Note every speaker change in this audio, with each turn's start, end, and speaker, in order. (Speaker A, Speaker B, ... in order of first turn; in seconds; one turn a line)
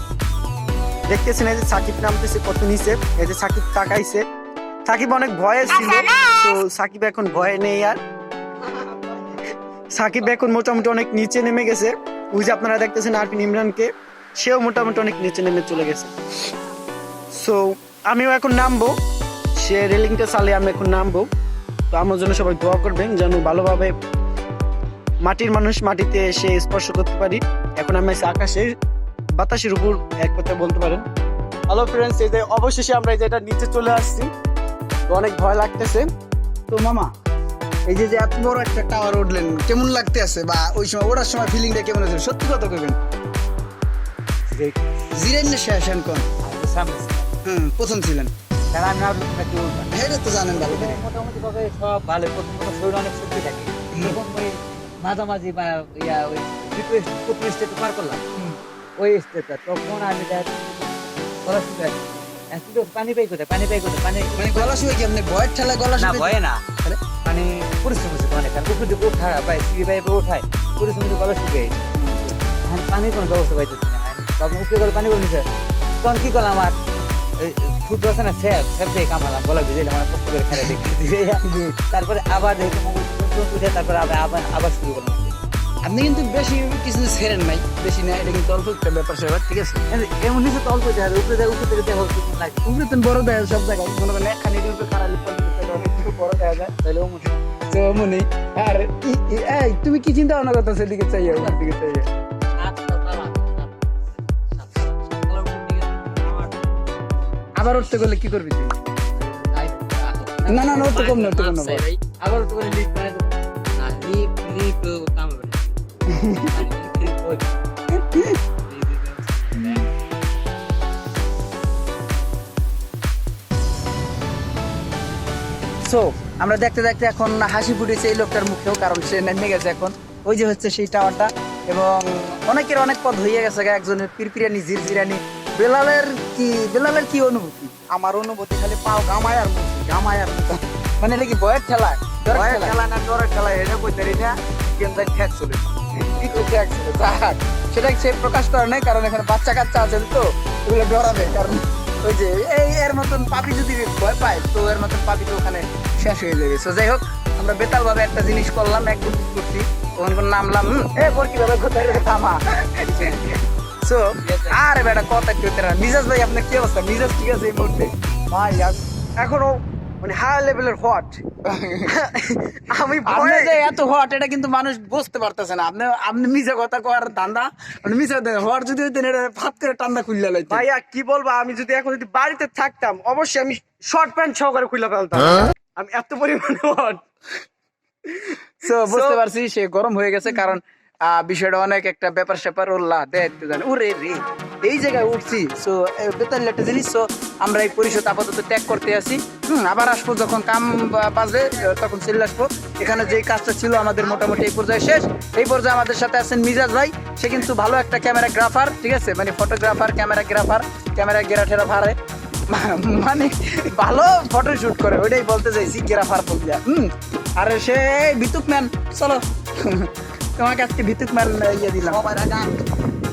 Speaker A: 1.1-4.2
Speaker A: 4.9-8.0
Speaker A: 9.9-16.1
Speaker A: 17.3-18.9
Speaker A: 19.6-21.3
Speaker A: 21.9-23.9
Speaker A: 25.2-28.7
Speaker A: 29.4-31.1
Speaker A: 31.7-34.3
Speaker A: 35.1-36.1
Speaker B: 36.7-37.1
Speaker B: 37.9-43.0
Speaker C: 44.5-44.9
Speaker B: 45.1-46.3
Speaker C: 46.4-47.3
Speaker B: 47.5-48.3
Speaker C: 48.7-49.9
Speaker B: 49.9-51.0
Speaker C: 50.5-58.2
Speaker B: 53.9-54.2
Speaker C: 59.0-65.0
Speaker B: 64.4-67.0
Speaker C: 66.0-66.7
Speaker C: 67.2-71.9
Speaker B: 72.0-72.3
Speaker C: 72.7-75.5
Speaker C: 76.0-76.8
Speaker C: 77.4-85.4
Speaker B: 81.4-81.8
Speaker B: 85.8-89.8
Speaker C: 89.9-92.6
Speaker B: 92.7-96.7
Speaker C: 96.8-97.4
Speaker B: 97.7-102.1
Speaker C: 102.6-103.8
Speaker C: 104.5-106.7
Speaker B: 107.6-108.7
Speaker C: 109.2-115.8
Speaker B: 110.5-111.8
Speaker B: 116.1-116.5
Speaker C: 116.4-117.6
Speaker B: 118.0-118.4
Speaker C: 118.7-119.9
Speaker B: 119.6-119.8
Speaker B: 125.8-138.1
Speaker B: 139.5-140.5
Speaker B: 141.0-142.8
Speaker A: 142.8-144.3
Speaker A: 144.8-145.5
Speaker B: 146.2-163.2
Speaker B: 163.8-167.9
Speaker C: 164.2-164.6
Speaker A: 168.3-171.2
Speaker B: 171.5-171.9
Speaker A: 171.9-173.7
Speaker B: 173.1-180.7
Speaker A: 180.5-187.0
Speaker B: 188.6-212.0
Speaker A: 188.7-189.2
Speaker B: 212.5-222.1
Speaker C: 222.1-222.6